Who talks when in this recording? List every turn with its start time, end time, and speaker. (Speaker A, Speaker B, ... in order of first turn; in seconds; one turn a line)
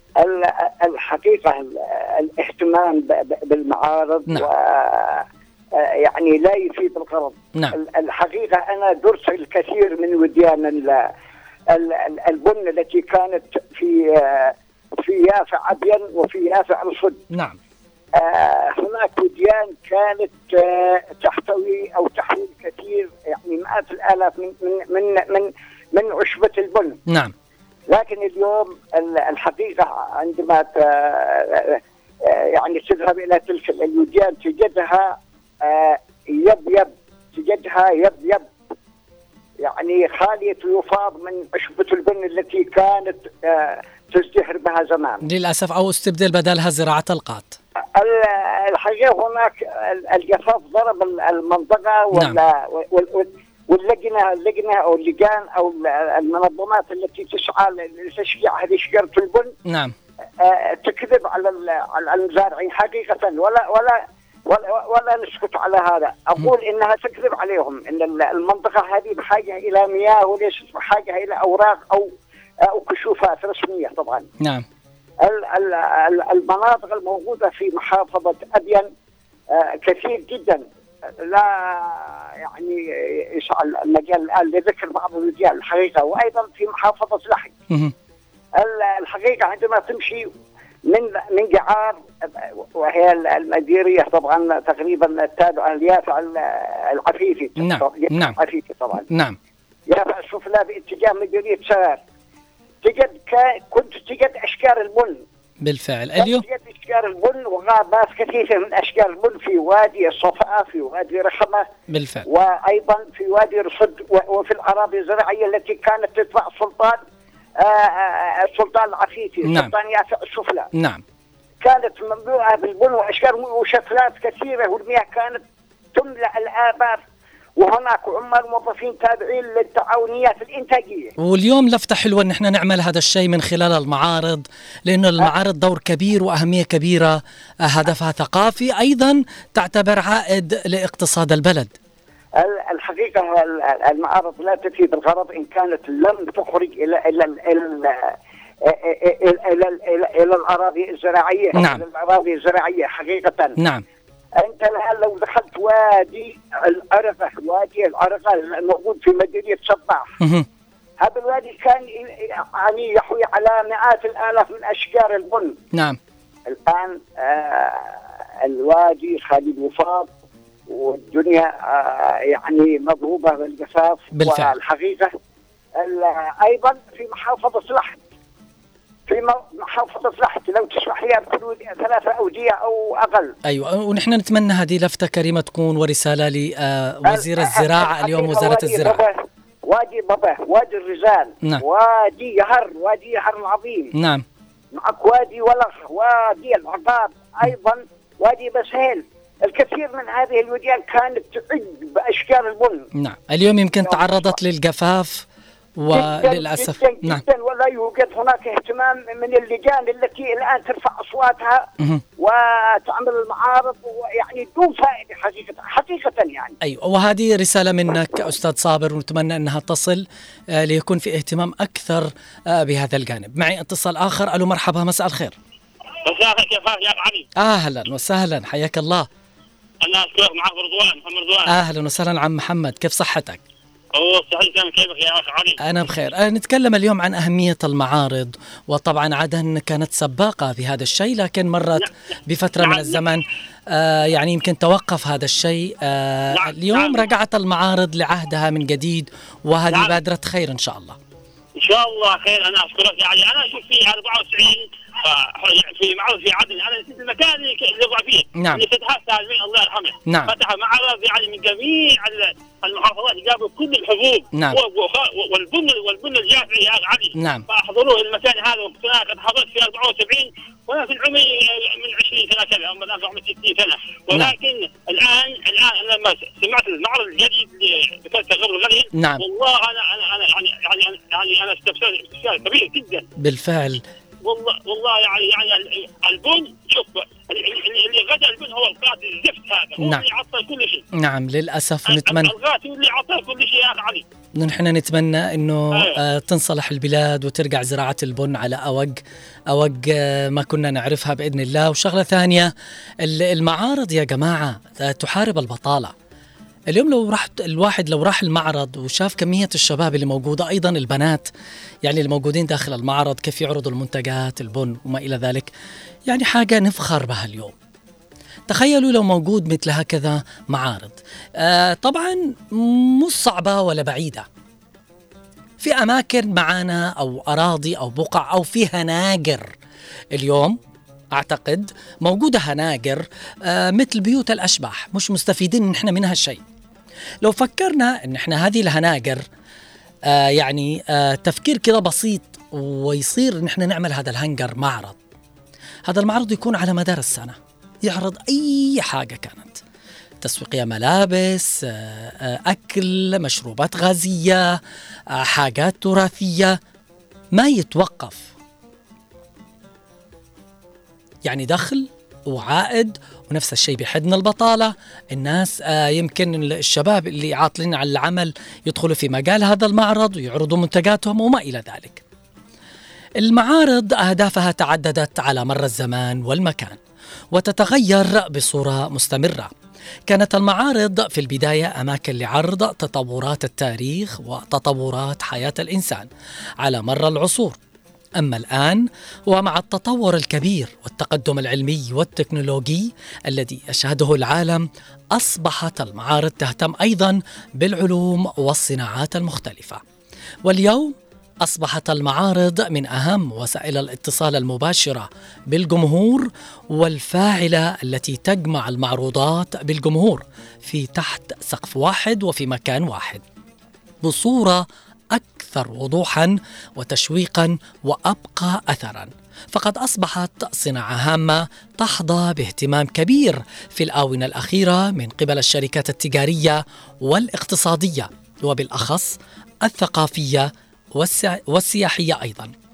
Speaker A: 0.2-5.2
Speaker A: 5.8-11.1
Speaker A: 11.7-17.2
Speaker B: 17.3-17.6
Speaker A: 18.1-27.0
Speaker B: 27.1-27.3
Speaker A: 27.9-38.5
Speaker A: 39.6-45.2
Speaker B: 45.2-47.6
Speaker A: 47.9-59.5
Speaker B: 59.7-59.9
Speaker A: 60.4-72.1
Speaker A: 72.6-74.2
Speaker B: 74.4-74.6
Speaker A: 75.2-78.9
Speaker A: 79.5-80.6
Speaker A: 81.2-87.5
Speaker A: 88.5-90.3
Speaker A: 90.9-99.1
Speaker B: 97.6-98.4
Speaker B: 99.1-99.4
Speaker A: 99.9-102.0
Speaker A: 102.8-105.2
Speaker B: 105.6-106.4
Speaker A: 106.2-111.7
Speaker B: 111.9-112.3
Speaker A: 112.2-117.0
Speaker A: 117.6-120.7
Speaker B: 119.4-119.7
Speaker B: 120.7-121.0
Speaker A: 121.6-125.4
Speaker A: 125.9-127.0
Speaker A: 127.6-131.1
Speaker B: 131.2-141.7
Speaker A: 142.4-153.6
Speaker B: 151.5-151.8
Speaker B: 153.6-153.8
Speaker A: 154.4-160.1
Speaker B: 160.2-160.5
Speaker A: 161.0-165.5
Speaker B: 165.7-166.0
Speaker A: 166.5-170.1
Speaker A: 170.7-175.1
Speaker B: 174.1-174.5
Speaker A: 175.8-178.0
Speaker A: 179.1-183.3
Speaker B: 183.4-189.0
Speaker A: 187.1-193.9
Speaker B: 193.9-194.2
Speaker A: 194.7-202.8
Speaker B: 202.9-205.2
Speaker A: 203.8-204.3
Speaker B: 205.8-207.2
Speaker A: 205.9-211.7
Speaker A: 212.2-216.6
Speaker B: 216.6-225.3
Speaker C: 226.0-227.2
Speaker B: 227.4-229.1
Speaker C: 229.8-231.5
Speaker B: 231.4-233.4
Speaker C: 233.9-235.6
Speaker B: 235.6-251.0
Speaker C: 242.6-243.0
Speaker C: 246.4-247.1
Speaker C: 249.7-249.9
Speaker C: 251.6-283.0
Speaker B: 258.4-258.7
Speaker B: 260.1-260.4
Speaker B: 264.3-264.6
Speaker B: 267.1-267.4
Speaker B: 274.1-274.4
Speaker B: 278.9-279.2
Speaker B: 283.2-283.8
Speaker C: 284.2-290.8
Speaker B: 289.8-290.1
Speaker B: 290.9-292.3
Speaker C: 291.9-294.0
Speaker B: 294.4-305.9
Speaker B: 306.7-311.3
Speaker B: 311.8-315.5
Speaker B: 316.1-317.5
Speaker B: 318.5-324.3
Speaker B: 325.6-329.5
Speaker B: 330.1-330.6
Speaker B: 331.1-336.4
Speaker B: 337.2-339.2
Speaker B: 340.1-345.0
Speaker B: 345.9-349.6
Speaker B: 350.2-354.6
Speaker B: 355.1-356.6
Speaker B: 357.3-358.3
Speaker B: 361.2-372.0
Speaker B: 373.2-376.8
Speaker B: 377.3-379.5
Speaker B: 380.1-386.1
Speaker B: 386.6-387.6
Speaker B: 388.2-399.8
Speaker B: 400.4-413.2
Speaker B: 414.0-432.5